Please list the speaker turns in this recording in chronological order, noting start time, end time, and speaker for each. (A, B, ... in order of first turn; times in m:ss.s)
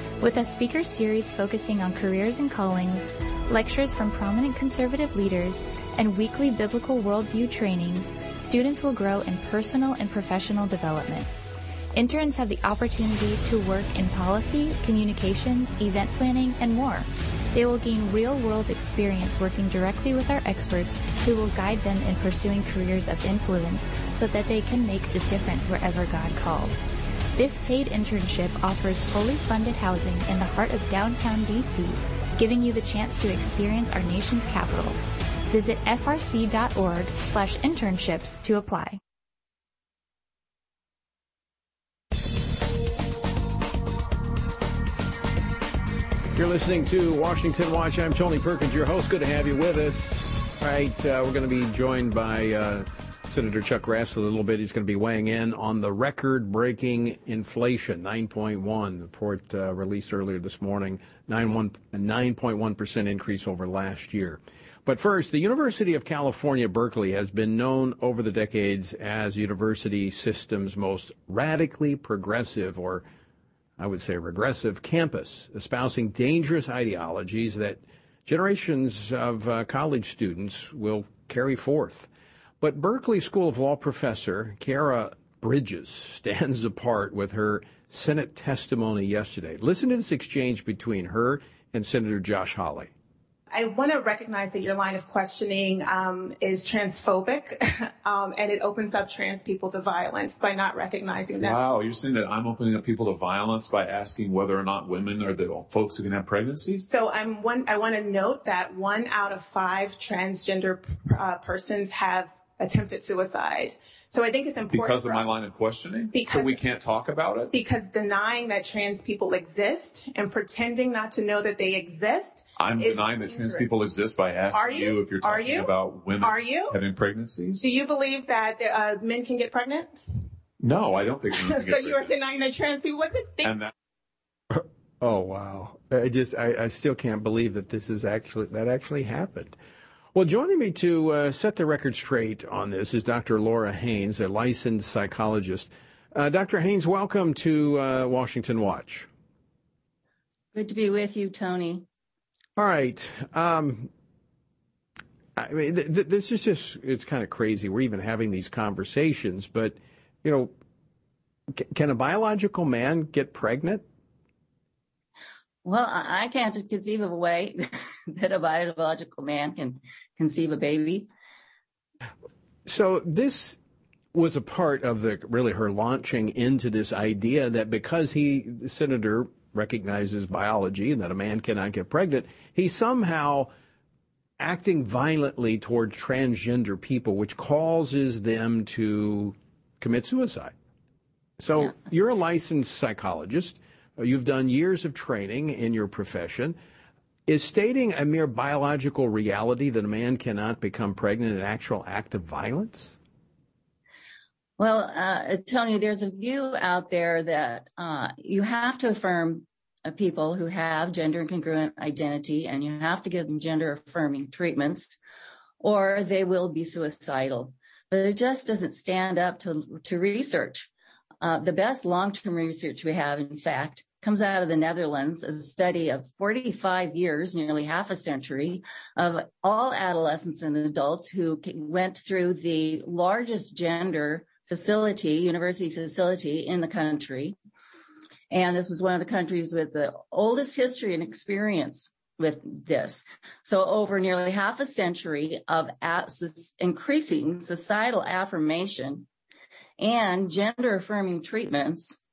0:00.2-0:11.3 A
0:11.9-0:35.0 A
0:35.5-0:39.0 A
0:46.3-1:13.0 B
1:13.8-1:22.1 B
1:22.6-1:32.9 B
1:33.5-1:41.6 C
1:41.4-1:46.9 D
1:46.8-1:55.3 C
1:54.7-1:57.6 D
1:56.1-1:56.6 C
1:57.5-2:03.7 C
2:02.6-2:07.6 D
2:04.5-2:06.8 C
2:07.6-2:10.0 C
2:10.6-2:12.1 D
2:11.4-2:13.6 C
2:13.4-2:13.7 D
2:14.5-2:19.5 B
2:20.1-2:29.1 B
2:30.5-2:31.8 E
2:32.6-2:33.9 B
2:35.4-2:40.5 B
2:41.6-2:43.8 B
2:45.6-2:51.1 E
2:52.6-2:53.6 B
2:54.1-3:03.5 B
3:04.4-3:10.5 B
3:11.4-3:16.6 B
3:17.3-3:23.0 B
3:24.6-3:35.0 E
3:35.6-3:40.7 E
3:41.2-3:57.4 E
3:58.3-4:09.1 E
4:09.8-4:12.0 E